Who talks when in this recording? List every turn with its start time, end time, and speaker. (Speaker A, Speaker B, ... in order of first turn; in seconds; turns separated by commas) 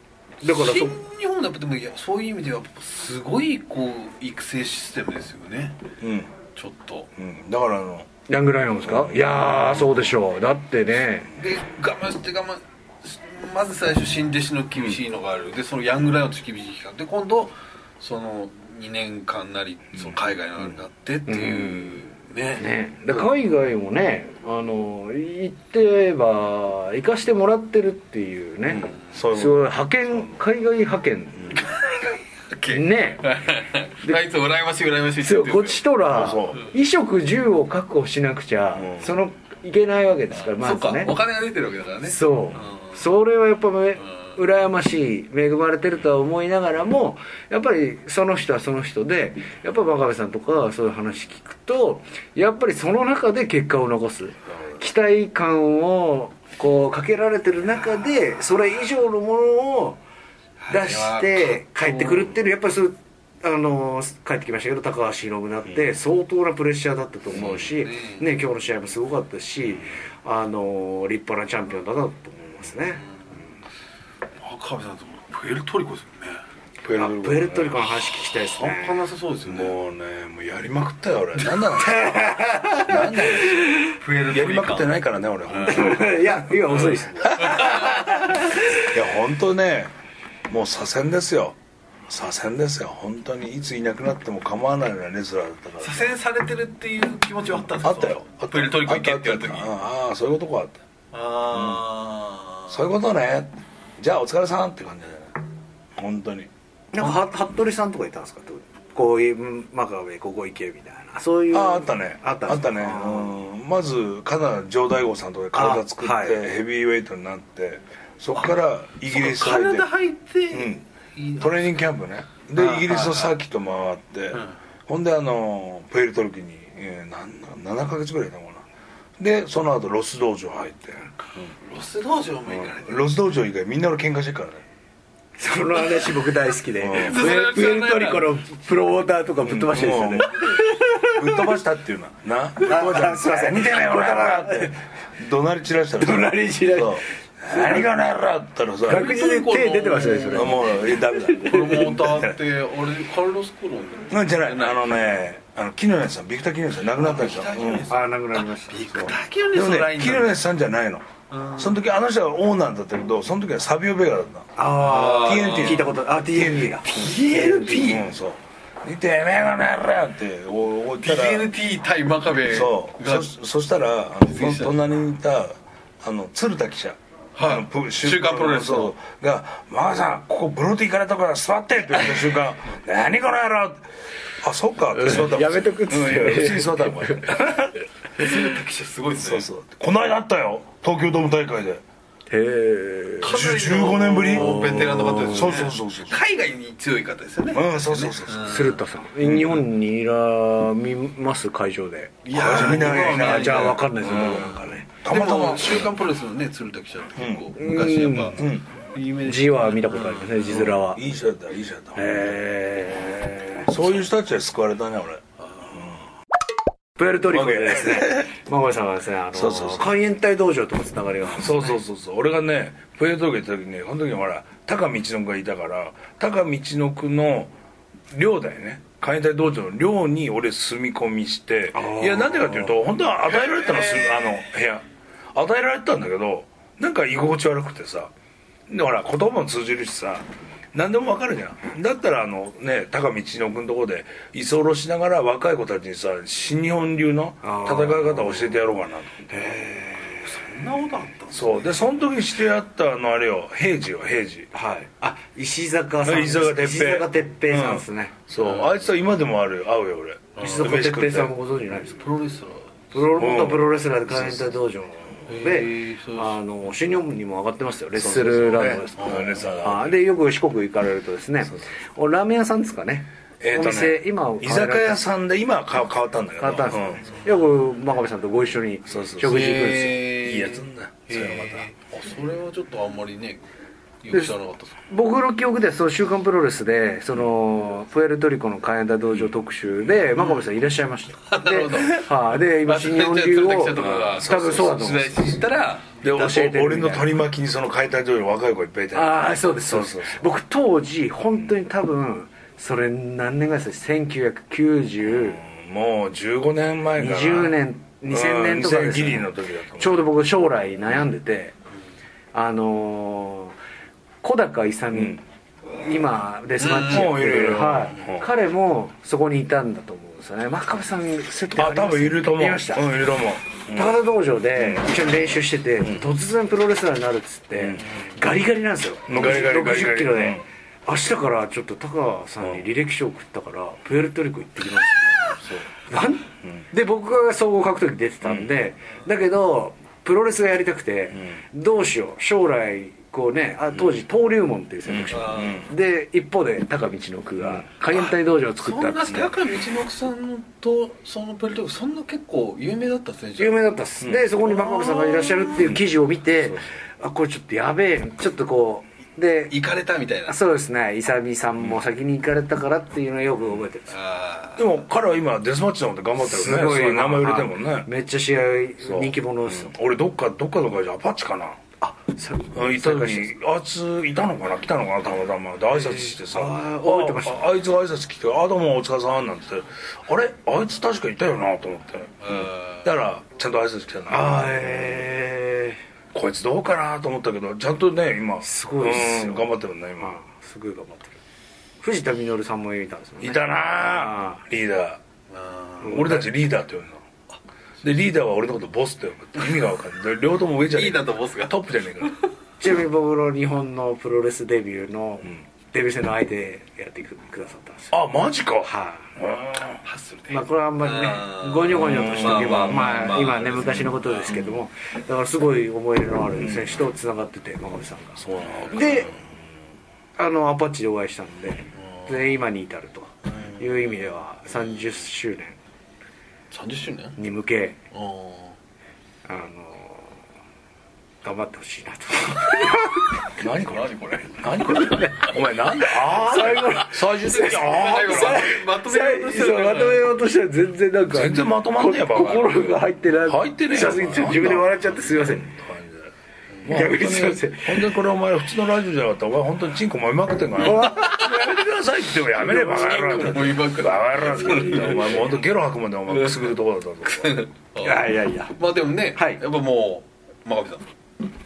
Speaker A: 0.4-1.0, Speaker B: 0.4-5.8, Speaker C: 6.0-6.3, Speaker B: 6.5-7.1, Speaker C: 7.2-8.1, Speaker A: 8.3-11.3, Speaker C: 8.8-10.1, Speaker B: 11.4-22.7, Speaker A: 21.3-22.0, Speaker A: 22.6-31.6, Speaker C: 28.8-29.6, Speaker B: 31.6-35.9, Speaker A: 32.7-33.4, Speaker A: 35.2-41.1, Speaker C: 36.1-36.6, Speaker C: 38.8-39.1, Speaker B: 40.5-43.0, Speaker A: 42.1-60.0, Speaker B: 60.6-62.4, Speaker A: 60.7-73.1, Speaker C: 67.4-67.7, Speaker B: 67.5-68.2, Speaker B: 74.4-76.4, Speaker C: 76.8-77.8, Speaker A: 77.0-79.0, Speaker B: 78.3-79.8, Speaker C: 79.5-86.1, Speaker A: 81.7-83.9, Speaker B: 83.8-85.0, Speaker B: 85.5-85.9, Speaker A: 85.7-88.6, Speaker B: 86.8-88.1, Speaker C: 87.3-88.0, Speaker C: 88.8-89.9, Speaker C: 90.5-91.6, Speaker C: 92.1-96.1, Speaker B: 95.8-99.7, Speaker C: 97.8-100.8, Speaker B: 101.1-102.8, Speaker C: 101.5-101.9, Speaker C: 102.7-105.4, Speaker C: 106.0-106.5, Speaker A: 106.9-113.4, Speaker C: 111.5-119.9, Speaker A: 115.5-116.4, Speaker B: 119.1-121.8, Speaker C: 120.5-120.8, Speaker C: 121.4-128.7, Speaker B: 122.6-123.4, Speaker C: 129.2-131.5, Speaker B: 131.6-133.1, Speaker C: 132.5-134.6, Speaker A: 135.4-141.5, Speaker C: 136.8-137.2, Speaker B: 136.9-138.4, Speaker C: 139.4-149.1, Speaker A: 142.6-144.8, Speaker A: 146.0-147.9, Speaker A: 148.9-152.1, Speaker B: 148.9-150.8, Speaker C: 150.3-152.4, Speaker B: 151.4-155.1, Speaker C: 154.1-157.9, Speaker B: 156.9-160.4, Speaker A: 157.8-159.1, Speaker C: 159.0-164.5, Speaker B: 161.3-161.8, Speaker A: 164.6-168.1, Speaker B: 164.8-165.9, Speaker C: 165.0-167.0, Speaker B: 166.8-168.0, Speaker C: 167.7-171.5, Speaker B: 171.0-173.3, Speaker C: 172.5-183.8, Speaker B: 174.2-174.8, Speaker B: 177.4-178.9, Speaker C: 184.4-187.8, Speaker A: 184.9-187.6, Speaker B: 188.2-189.5, Speaker C: 189.2-191.8, Speaker A: 192.3-193.4, Speaker B: 193.2-198.8, Speaker C: 193.2-196.2, Speaker A: 194.3-195.5, Speaker C: 197.5-198.5, Speaker A: 198.4-204.9, Speaker C: 199.2-199.6, Speaker B: 202.2-210.7, Speaker C: 202.3-205.9, Speaker C: 207.2-207.5, Speaker A: 207.6-208.4, Speaker C: 208.3-208.7, Speaker A: 209.2-211.0, Speaker C: 210.5-212.4, Speaker A: 211.9-213.7, Speaker C: 213.7-216.0, Speaker B: 215.4-215.8, Speaker A: 217.0-221.8, Speaker C: 217.3-218.3, Speaker C: 219.3-220.0, Speaker C: 221.3-227.5, Speaker C: 228.1-238.1, Speaker A: 231.7-232.8, Speaker B: 233.4-234.3, Speaker C: 238.7-249.5, Speaker A: 247.4-248.6, Speaker A: 249.3-250.4, Speaker B: 250.1-251.8, Speaker C: 251.3-254.5, Speaker A: 254.5-258.1, Speaker C: 256.0-261.3, Speaker B: 258.4-258.8, Speaker B: 260.4-260.7, Speaker A: 260.4-262.0, Speaker B: 261.9-262.9, Speaker A: 262.9-275.1, Speaker C: 263.2-264.5, Speaker B: 265.3-266.4, Speaker C: 268.0-270.0, Speaker B: 269.0-269.5, Speaker C: 273.4-277.0, Speaker A: 276.4-280.2, Speaker C: 278.9-279.3, Speaker B: 279.2-283.4, Speaker C: 280.2-281.7, Speaker B: 284.0-284.8, Speaker A: 284.9-295.4, Speaker B: 290.2-290.4, Speaker B: 291.3-296.0, Speaker C: 293.8-294.8, Speaker C: 296.0-300.2, Speaker A: 296.1-297.1, Speaker A: 298.9-305.4, Speaker C: 305.1-307.6, Speaker A: 307.0-311.5, Speaker C: 308.1-310.0, Speaker A: 312.3-313.6, Speaker A: 314.2-315.2, Speaker C: 314.9-315.2, Speaker A: 315.8-322.9, Speaker B: 316.6-317.2, Speaker C: 316.9-318.3, Speaker C: 321.6-323.9, Speaker A: 323.7-349.4, Speaker C: 324.6-324.9, Speaker C: 327.6-327.9, Speaker C: 329.1-330.4, Speaker C: 335.4-335.7, Speaker C: 344.9-345.7, Speaker B: 345.1-345.6, Speaker C: 347.4-347.6, Speaker B: 347.9-353.6, Speaker A: 353.4-359.6, Speaker C: 354.0-354.3, Speaker B: 354.5-355.7, Speaker B: 359.5-360.4, Speaker A: 360.3-364.0, Speaker B: 363.9-364.8, Speaker C: 364.6-367.9, Speaker A: 366.2-369.7, Speaker C: 368.8-371.6, Speaker A: 371.8-373.4, Speaker C: 372.5-385.0, Speaker A: 375.7-377.4, Speaker B: 382.2-382.9, Speaker A: 384.1-385.8, Speaker C: 386.1-390.2, Speaker A: 388.4-391.2, Speaker A: 391.8-394.4, Speaker C: 393.2-395.0, Speaker B: 395.3-396.1, Speaker A: 395.8-396.3, Speaker C: 395.9-397.0, Speaker C: 397.8-402.1, Speaker B: 400.6-402.3, Speaker A: 402.6-407.9, Speaker C: 407.9-409.8, Speaker A: 408.6-409.1, Speaker B: 409.8-414.4, Speaker A: 410.3-419.1, Speaker C: 411.7-412.9, Speaker C: 414.3-414.6, Speaker C: 416.4-416.8, Speaker C: 418.2-419.2, Speaker A: 420.2-425.6, Speaker B: 421.8-422.3, Speaker B: 423.3-424.2, Speaker B: 426.5-427.2, Speaker A: 427.2-427.8, Speaker B: 427.9-428.6, Speaker A: 429.2-430.1, Speaker A: 431.2-433.3, Speaker C: 433.4-438.5, Speaker B: 433.4-435.3, Speaker A: 434.6-445.5, Speaker B: 436.4-436.6, Speaker B: 437.3-440.1, Speaker C: 441.1-442.6, Speaker C: 443.3-446.1, Speaker C: 446.6-457.4, Speaker A: 446.7-447.9, Speaker A: 450.6-451.4, Speaker B: 450.6-451.4, Speaker B: 452.4-455.3, Speaker A: 452.8-453.4, Speaker A: 454.3-455.3, Speaker B: 456.1-460.9, Speaker A: 457.8-458.6, Speaker A: 459.2-459.4